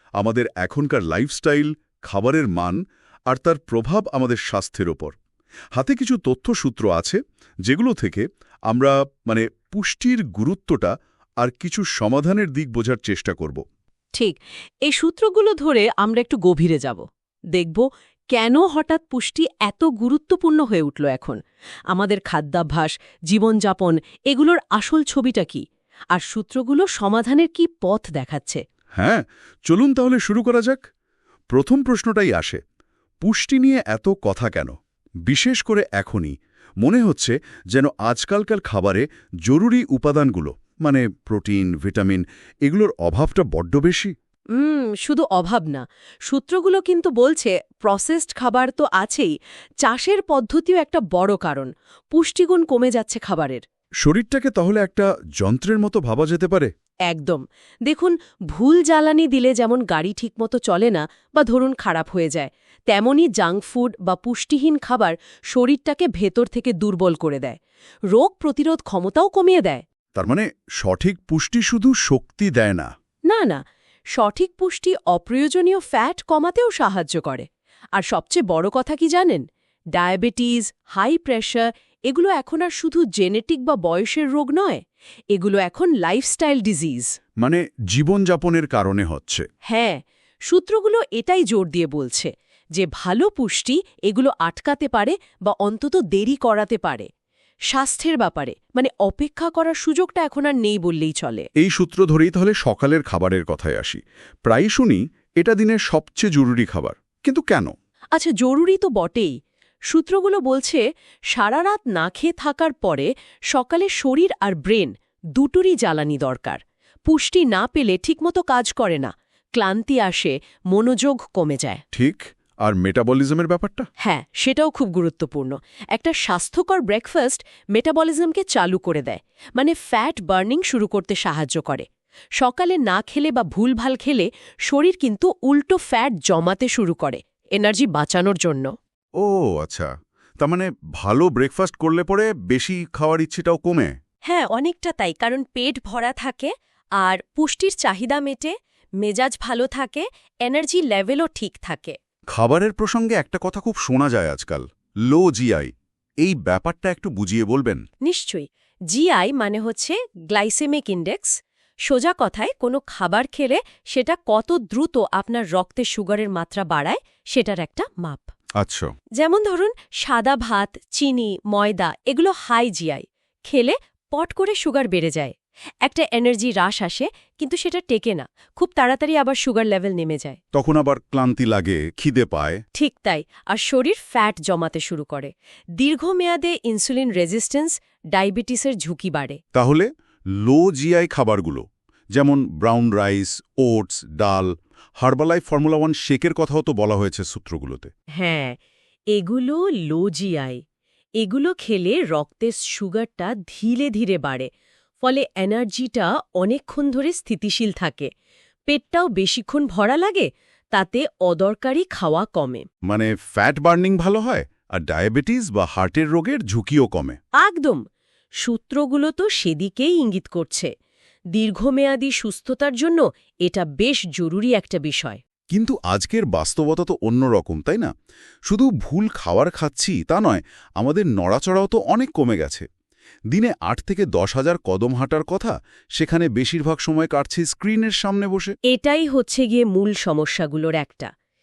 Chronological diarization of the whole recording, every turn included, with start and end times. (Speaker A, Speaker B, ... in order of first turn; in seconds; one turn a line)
Speaker A: 0.2-2.8
Speaker A: 3.3-5.1
Speaker A: 5.8-13.6
Speaker B: 14.1-21.4
Speaker B: 21.9-28.6
Speaker A: 29.0-30.8
Speaker A: 31.5-32.6
Speaker A: 33.2-34.7
Speaker A: 35.3-44.1
Speaker B: 44.5-49.3
Speaker B: 49.8-53.6
Speaker A: 54.0-56.7
Speaker B: 57.1-67.6
Speaker B: 68.1-69.8
Speaker A: 70.1-72.9
Speaker B: 73.3-73.6
Speaker B: 74.1-84.8
Speaker B: 85.3-87.1
Speaker A: 87.4-89.5
Speaker B: 89.7-97.1
Speaker B: 97.7-101.5
Speaker A: 101.6-107.7
Speaker B: 108.1-109.3
Speaker B: 109.9-121.8
Speaker A: 121.9-123.9
Speaker B: 124.0-131.8
Speaker B: 132.4-138.7
Speaker A: 139.2-143.9
Speaker B: 144.2-151.9
Speaker A: 152.3-155.7
Speaker A: 156.2-157.8
Speaker B: 158.0-168.3
Speaker A: 168.6-168.9
Speaker B: 169.2-180.4
Speaker A: 180.5-182.6
Speaker B: 182.8-189.4
Speaker A: 189.5-189.9
Speaker A: 190.4-191.6
Speaker A: 192.1-197.9
Speaker B: 198.2-198.6
Speaker B: 199.1-200.6
Speaker B: 201.2-204.5
Speaker B: 205.0-208.1
Speaker B: 208.7-212.7
Speaker A: 212.8-217.2
Speaker B: 217.4-217.8
Speaker B: 218.4-220.7
Speaker B: 221.3-225.2
Speaker A: 225.5-227.9
Speaker A: 228.5-232.7
Speaker A: 233.3-238.5
Speaker B: 238.7-241.1